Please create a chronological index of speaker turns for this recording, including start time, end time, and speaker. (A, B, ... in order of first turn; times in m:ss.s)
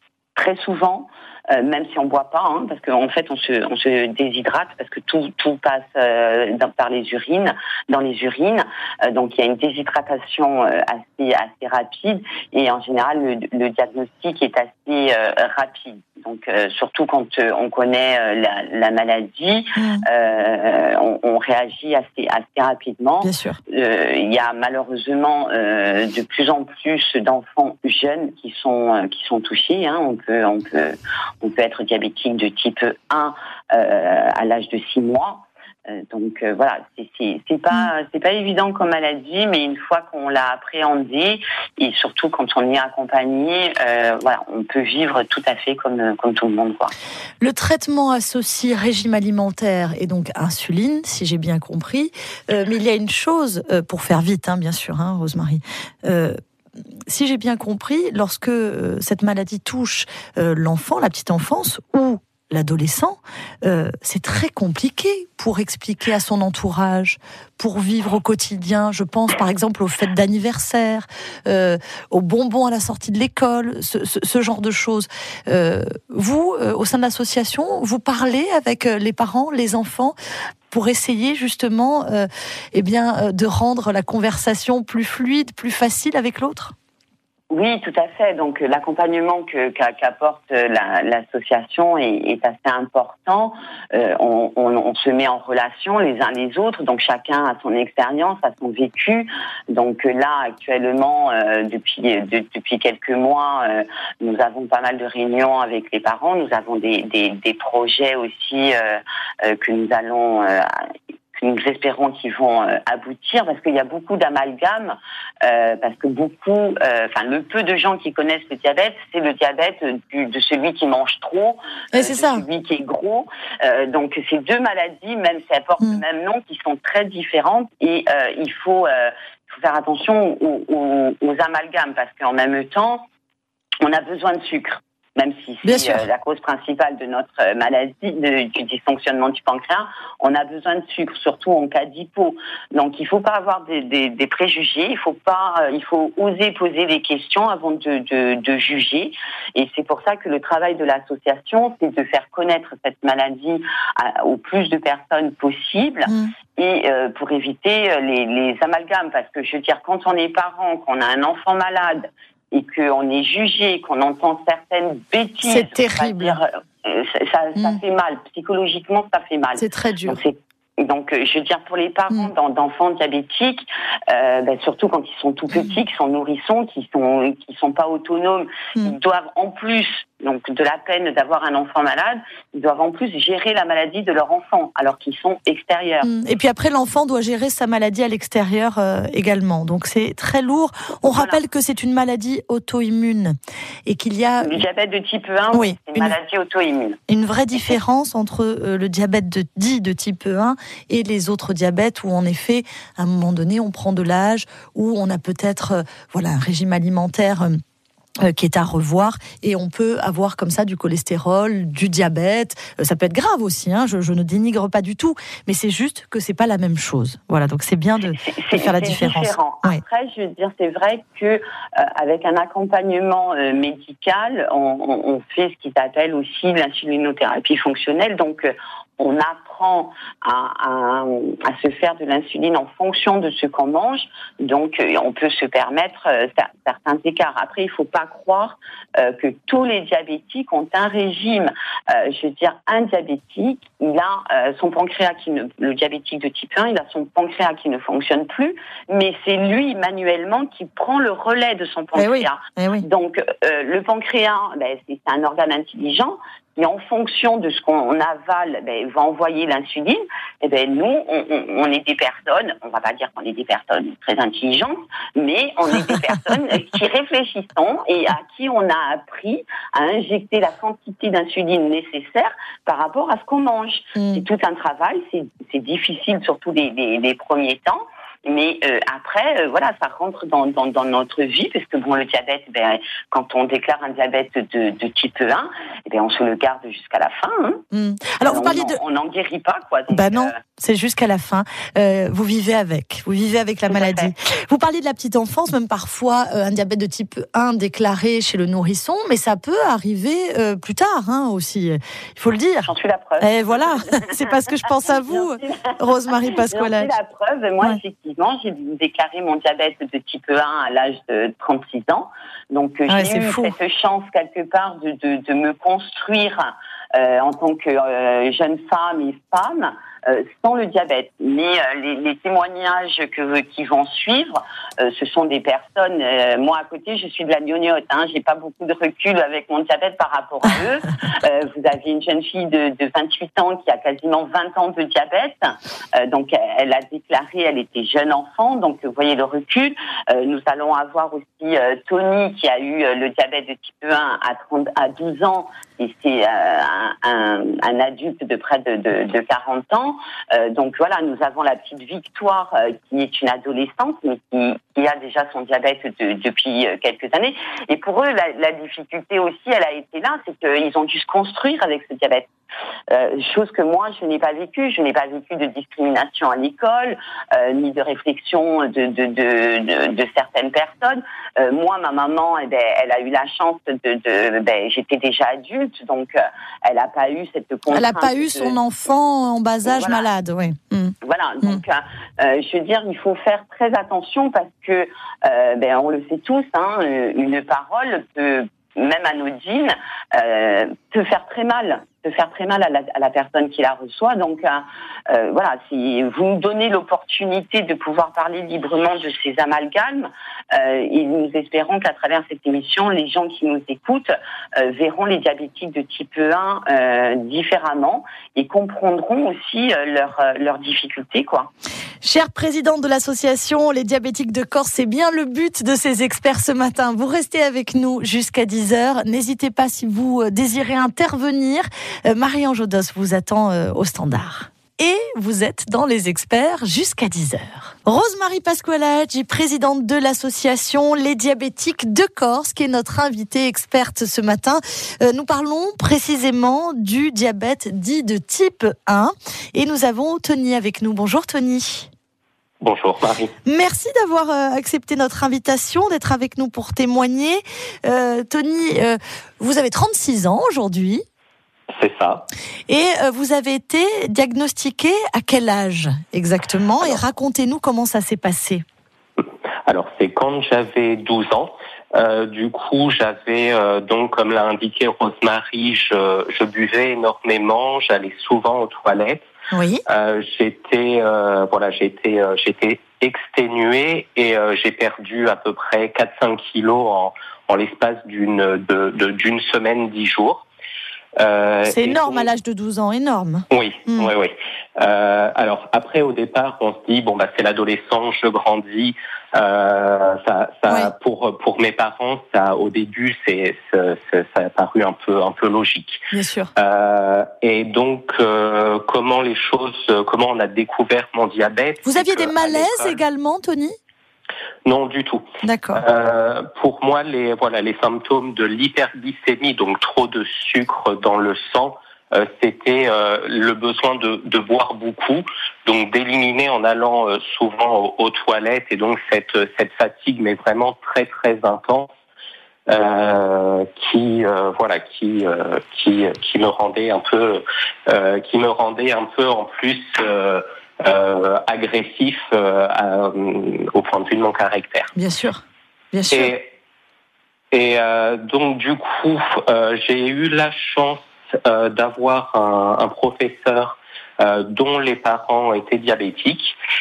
0:00.4-0:46.9 A
0:19.8-0:20.0 B
0:23.2-0:23.6 B
0:47.4-0:56.4 B
0:57.1-1:20.2 B
1:20.7-1:26.8 B
1:27.5-1:50.9 A
1:51.4-2:13.0 A
2:01.9-2:02.4 B
2:13.8-3:06.1 A
2:15.6-2:16.0 B
2:45.4-2:46.4 B
2:49.6-2:50.2 B
3:06.0-3:14.6 B
3:11.0-3:11.4 A
3:14.4-3:17.0 A
3:15.5-3:16.1 B
3:17.1-3:27.6 B
3:28.2-3:39.8 B
3:38.1-4:47.6 A
4:12.0-4:12.8 B
4:34.0-4:34.2 B
4:47.7-4:48.8 B
4:48.2-4:50.4 A
4:49.9-5:02.7 B
4:53.7-4:54.1 A
5:02.6-5:04.2 A
5:03.2-5:06.9 B
5:04.8-6:02.3 A
5:12.9-5:13.5 B
6:02.9-6:18.6 A
6:17.7-6:21.6 B
6:19.6-6:20.1 A
6:21.0-6:51.5 A
6:52.0-7:21.9 B
7:22.6-7:23.3 C
7:23.4-7:31.0 B
7:31.8-7:32.3 C
7:32.7-7:38.6 B
7:39.7-7:49.2 C
7:49.5-7:49.8 B
7:49.9-8:00.4 C
8:01.2-8:02.3 C
8:01.7-8:04.1 B
8:03.5-8:16.0 C
8:16.1-8:16.5 B
8:16.6-8:23.0 C
8:21.8-8:23.8 B
8:24.6-8:41.9 C
8:25.4-8:25.8 B
8:42.7-8:54.9 C
8:55.0-8:55.4 B
8:55.9-8:56.3 B
8:56.1-8:56.5 C
8:57.5-9:06.6 C